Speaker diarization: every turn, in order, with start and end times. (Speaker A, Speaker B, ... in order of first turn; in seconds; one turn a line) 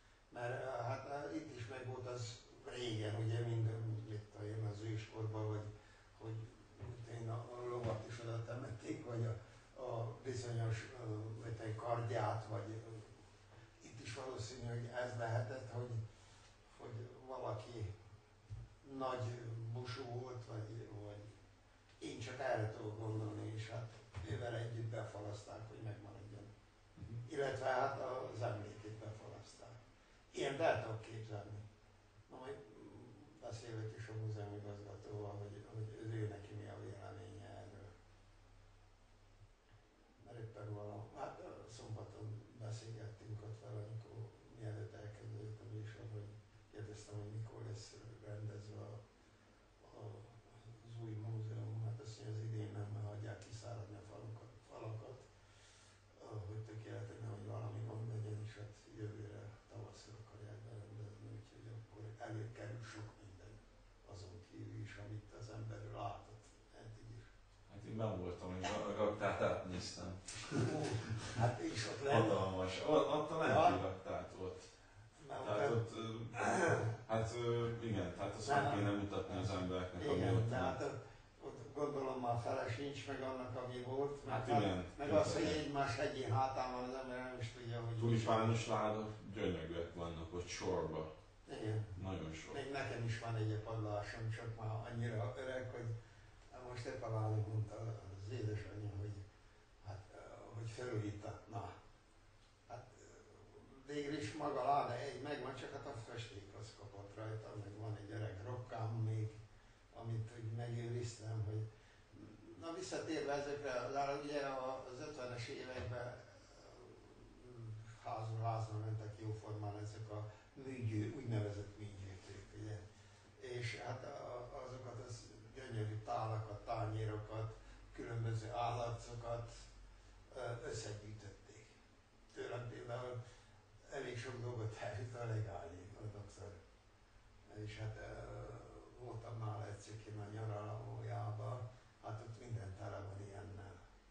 Speaker A: 0.3-13.2
Speaker A: 13.8-16.0
Speaker A: 16.7-17.9
Speaker A: 18.8-21.3
Speaker A: 22.0-26.5
Speaker B: 27.0-27.2
Speaker A: 27.2-29.8
Speaker A: 30.3-31.6
Speaker A: 32.3-37.9
Speaker A: 40.2-49.0
Speaker A: 49.8-55.3
Speaker A: 56.1-67.3
Speaker B: 67.7-70.7
Speaker A: 70.6-72.8
Speaker B: 72.1-74.7
Speaker A: 73.4-73.8
Speaker A: 75.2-76.9
Speaker B: 75.4-80.8
Speaker A: 78.4-88.6
Speaker B: 84.2-85.6
Speaker B: 88.0-91.1
Speaker A: 91.5-92.0
Speaker B: 92.0-92.6
Speaker A: 92.5-95.9
Speaker A: 96.5-99.2
Speaker A: 99.8-101.7
Speaker A: 102.7-109.3
Speaker A: 109.9-122.8
Speaker A: 123.4-129.6
Speaker A: 130.3-131.7
Speaker A: 132.3-133.2
Speaker A: 133.9-136.6
Speaker A: 137.4-143.8